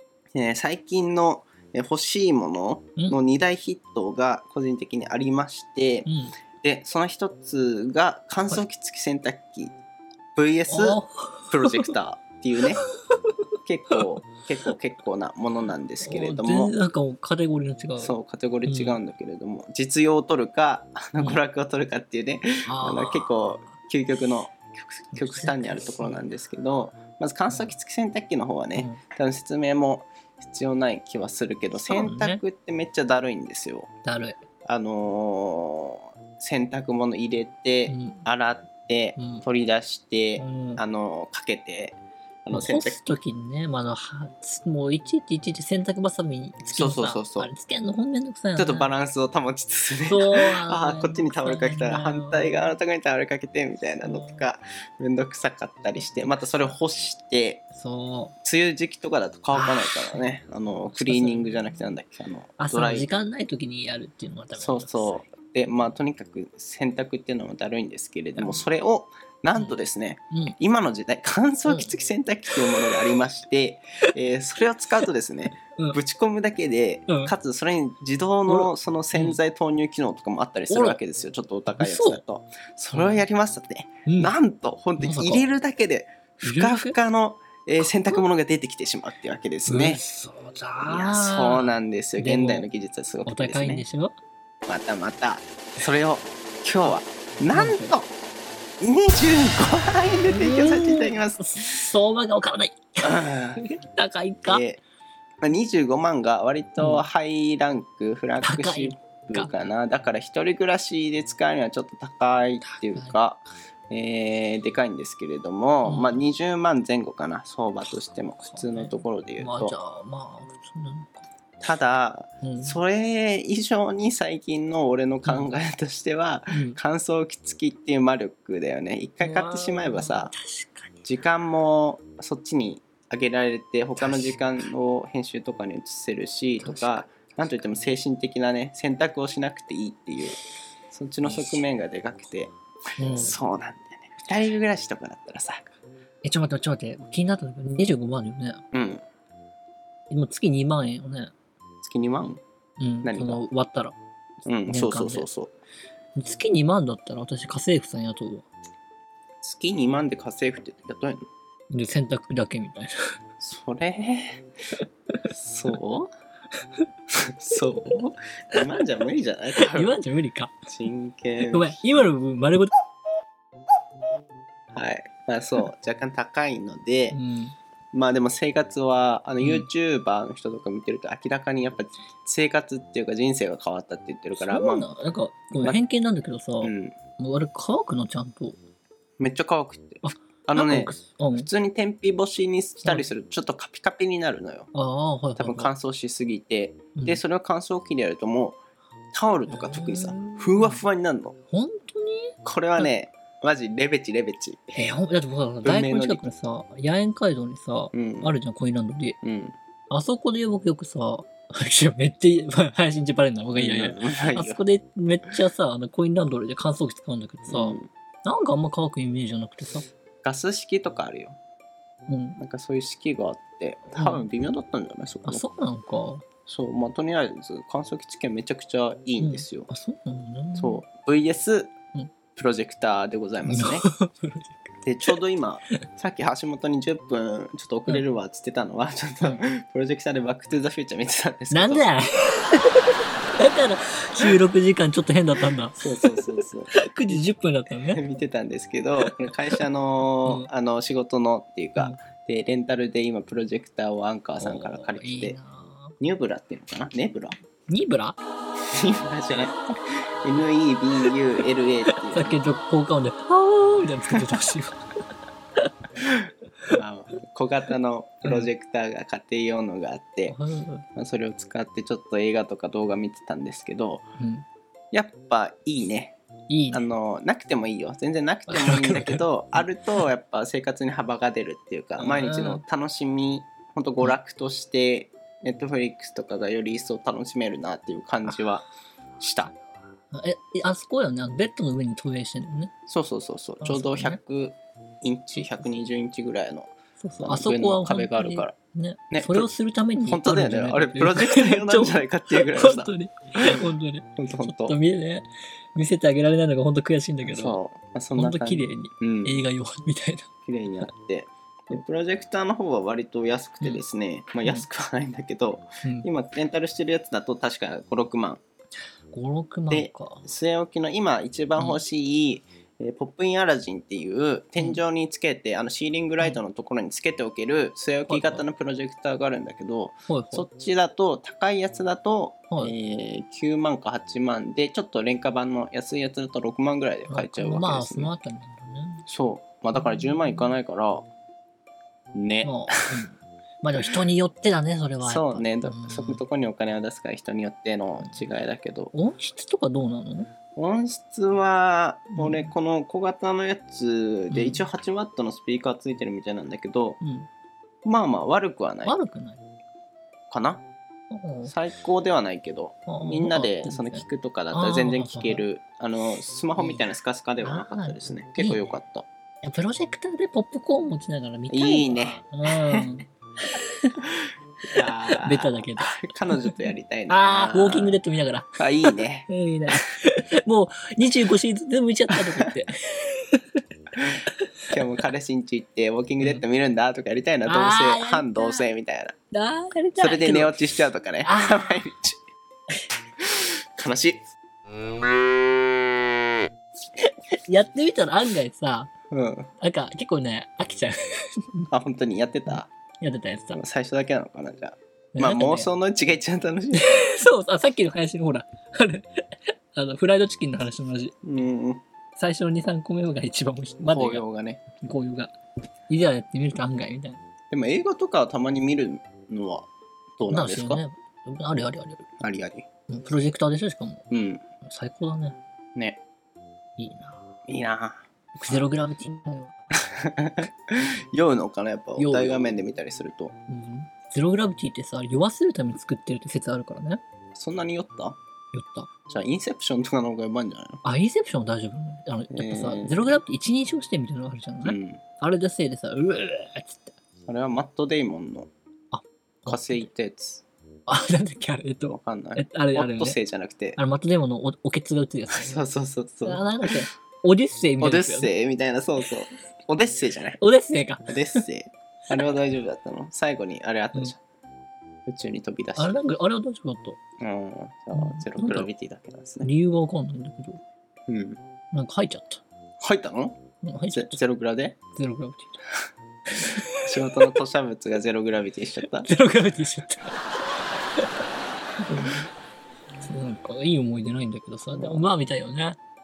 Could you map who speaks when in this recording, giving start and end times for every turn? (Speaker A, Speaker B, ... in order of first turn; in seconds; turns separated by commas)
Speaker A: 0.3-9.7, Speaker B: 6.0-6.3, Speaker A: 10.3-11.0, Speaker B: 10.7-11.9, Speaker A: 11.5-12.8, Speaker A: 13.6-16.7, Speaker B: 13.9-14.2, Speaker B: 16.0-18.1, Speaker A: 18.0-33.9, Speaker B: 18.6-19.0, Speaker B: 22.6-23.6, Speaker B: 25.1-26.2, Speaker B: 31.7-32.4, Speaker B: 34.0-34.4, Speaker A: 34.6-43.0, Speaker B: 37.9-38.2, Speaker B: 39.2-39.4, Speaker B: 40.4-40.8, Speaker B: 42.5-48.9, Speaker A: 46.7-47.5, Speaker A: 48.5-57.6, Speaker B: 50.1-52.7, Speaker B: 54.0-54.5, Speaker B: 57.7-58.3, Speaker A: 58.4-63.1, Speaker B: 59.5-60.3, Speaker B: 60.9-61.7, Speaker B: 62.6-65.3, Speaker A: 64.5-90.0, Speaker B: 68.4-68.6, Speaker B: 71.7-71.9, Speaker B: 77.1-77.3, Speaker B: 78.5-79.4, Speaker B: 80.7-81.0, Speaker B: 81.7-82.2, Speaker B: 82.9-83.2, Speaker B: 84.0-84.3, Speaker B: 85.0-85.4, Speaker B: 86.4-87.0, Speaker B: 87.8-88.2, Speaker B: 89.7-92.7, Speaker A: 90.9-93.8, Speaker B: 93.2-94.1, Speaker A: 94.7-98.1, Speaker B: 97.5-97.9, Speaker A: 98.8-101.9, Speaker B: 100.3-104.6, Speaker A: 103.0-103.7, Speaker A: 104.4-104.8, Speaker A: 105.4-119.7, Speaker B: 106.8-107.0, Speaker B: 108.4-109.7, Speaker B: 112.6-113.2, Speaker B: 115.8-116.2, Speaker B: 117.8-121.2, Speaker A: 121.6-130.3, Speaker B: 122.4-122.8, Speaker B: 125.2-125.5, Speaker B: 126.5-126.8, Speaker B: 129.2-131.0, Speaker A: 131.0-140.4, Speaker B: 134.0-134.5, Speaker B: 136.6-137.8, Speaker A: 140.9-145.7, Speaker B: 141.2-141.6, Speaker B: 143.0-143.4, Speaker B: 146.2-148.6, Speaker A: 148.7-149.0, Speaker B: 150.1-151.3, Speaker A: 151.8-152.4, Speaker B: 152.8-153.9, Speaker A: 153.0-153.4, Speaker A: 154.4-155.5, Speaker B: 154.7-155.3, Speaker B: 156.1-158.5, Speaker A: 159.4-161.2, Speaker B: 161.7-162.9, Speaker A: 163.4-164.4, Speaker A: 165.3-166.1, Speaker A: 167.4-170.0, Speaker B: 169.6-170.5, Speaker A: 170.7-171.8, Speaker B: 171.5-172.7, Speaker A: 174.7-177.2, Speaker B: 177.1-177.5, Speaker A: 177.9-184.9, Speaker B: 179.4-179.7, Speaker B: 184.3-188.6, Speaker A: 186.6-187.0, Speaker A: 189.2-194.7, Speaker B: 190.0-191.5, Speaker B: 194.7-195.7, Speaker A: 195.4-198.6, Speaker B: 196.9-197.2, Speaker A: 199.1-201.4, Speaker B: 199.5-200.8, Speaker B: 201.5-202.9, Speaker A: 202.4-204.8, Speaker B: 204.7-209.2, Speaker A: 205.6-206.2, Speaker A: 207.9-208.3, Speaker A: 209.2-209.6, Speaker B: 209.9-219.8, Speaker A: 213.5-214.6, Speaker A: 217.5-217.9, Speaker A: 220.2-221.3, Speaker B: 222.1-222.4, Speaker A: 222.4-225.4, Speaker B: 223.9-224.2, Speaker B: 225.2-226.2, Speaker A: 226.4-229.7, Speaker B: 229.2-230.8, Speaker A: 230.6-231.7, Speaker A: 232.3-233.8, Speaker B: 233.4-235.2, Speaker A: 234.8-241.9, Speaker B: 241.5-242.8, Speaker B: 243.4-248.0, Speaker A: 245.8-247.2, Speaker A: 247.8-255.4, Speaker B: 249.0-249.3, Speaker B: 254.4-255.9, Speaker A: 256.0-257.4, Speaker B: 257.7-258.2, Speaker A: 258.7-262.4, Speaker B: 261.9-264.8, Speaker A: 266.7-270.4, Speaker B: 268.2-268.5, Speaker B: 270.3-270.9, Speaker A: 270.9-274.1, Speaker B: 274.2-274.4, Speaker A: 274.9-276.1, Speaker B: 276.5-276.9, Speaker A: 276.7-288.7, Speaker B: 278.5-279.6, Speaker B: 282.0-282.6, Speaker A: 289.2-289.5, Speaker B: 290.1-292.7, Speaker A: 292.9-298.6, Speaker B: 293.6-294.2, Speaker B: 297.0-307.6, Speaker A: 299.1-299.5, Speaker A: 300.0-303.6, Speaker A: 304.1-304.8, Speaker A: 307.2-309.4, Speaker B: 308.1-310.3, Speaker A: 310.4-318.4, Speaker B: 315.8-316.1, Speaker B: 319.1-320.3, Speaker A: 319.7-338.1, Speaker B: 328.1-328.4, Speaker B: 330.1-330.5, Speaker B: 337.1-339.0, Speaker A: 339.1-341.1, Speaker B: 339.7-340.5, Speaker A: 342.1-342.8, Speaker B: 342.4-346.2, Speaker A: 345.0-348.9, Speaker B: 348.9-350.3, Speaker A: 350.5-357.0, Speaker B: 352.1-352.5, Speaker B: 354.3-354.6, Speaker B: 357.0-357.3, Speaker A: 357.8-359.0, Speaker B: 358.8-359.4, Speaker A: 360.3-360.6, Speaker B: 361.1-361.5, Speaker A: 361.4-369.1, Speaker B: 362.9-365.4, Speaker B: 366.6-366.8, Speaker B: 367.4-368.8, Speaker B: 369.4-374.0, Speaker A: 371.5-372.9, Speaker A: 374.7-378.0, Speaker B: 374.7-376.5, Speaker B: 377.1-383.6, Speaker A: 378.6-379.3, Speaker A: 382.1-382.5, Speaker A: 384.0-389.1, Speaker B: 387.4-388.6, Speaker B: 389.3-390.6, Speaker A: 389.9-392.2, Speaker B: 391.2-391.9, Speaker A: 393.2-394.3, Speaker B: 397.3-398.9, Speaker A: 399.1-399.5, Speaker B: 399.6-401.7, Speaker A: 401.7-402.7, Speaker B: 402.5-403.6, Speaker A: 403.5-407.0, Speaker B: 405.1-405.7, Speaker B: 406.7-411.2, Speaker A: 411.2-411.8, Speaker B: 412.2-414.2, Speaker A: 413.8-414.6, Speaker B: 414.8-415.3, Speaker B: 415.9-417.2, Speaker A: 417.5-420.8, Speaker B: 420.3-422.0, Speaker A: 422.2-422.6, Speaker B: 422.9-424.1, Speaker A: 424.1-424.4, Speaker B: 424.6-425.4, Speaker A: 425.8-426.0, Speaker B: 426.8-427.2, Speaker A: 427.5-428.7, Speaker B: 428.4-429.5, Speaker A: 429.8-433.3, Speaker B: 432.0-432.6, Speaker B: 433.5-437.0, Speaker A: 437.3-438.2, Speaker B: 438.5-438.9, Speaker A: 439.1-440.8, Speaker B: 440.8-446.9, Speaker A: 442.3-443.1, Speaker A: 444.6-445.0, Speaker A: 447.2-448.5, Speaker B: 448.9-449.9, Speaker A: 449.5-450.4, Speaker B: 450.9-453.2, Speaker A: 451.9-453.8, Speaker B: 453.8-455.6, Speaker A: 455.3-456.8, Speaker B: 456.2-458.3, Speaker A: 457.8-460.4, Speaker B: 460.4-461.4, Speaker A: 461.1-464.2, Speaker B: 462.1-462.3, Speaker A: 465.1-466.0, Speaker B: 465.8-467.0, Speaker A: 467.2-469.5, Speaker B: 467.9-468.7, Speaker B: 469.4-470.6, Speaker A: 471.1-471.4, Speaker B: 471.7-472.4, Speaker A: 472.8-473.4, Speaker B: 473.6-474.2, Speaker A: 473.9-474.8, Speaker B: 474.9-475.6, Speaker B: 476.4-477.3, Speaker A: 476.8-479.1, Speaker B: 478.9-480.2, Speaker B: 481.9-482.3, Speaker B: 483.0-485.8, Speaker A: 484.7-485.1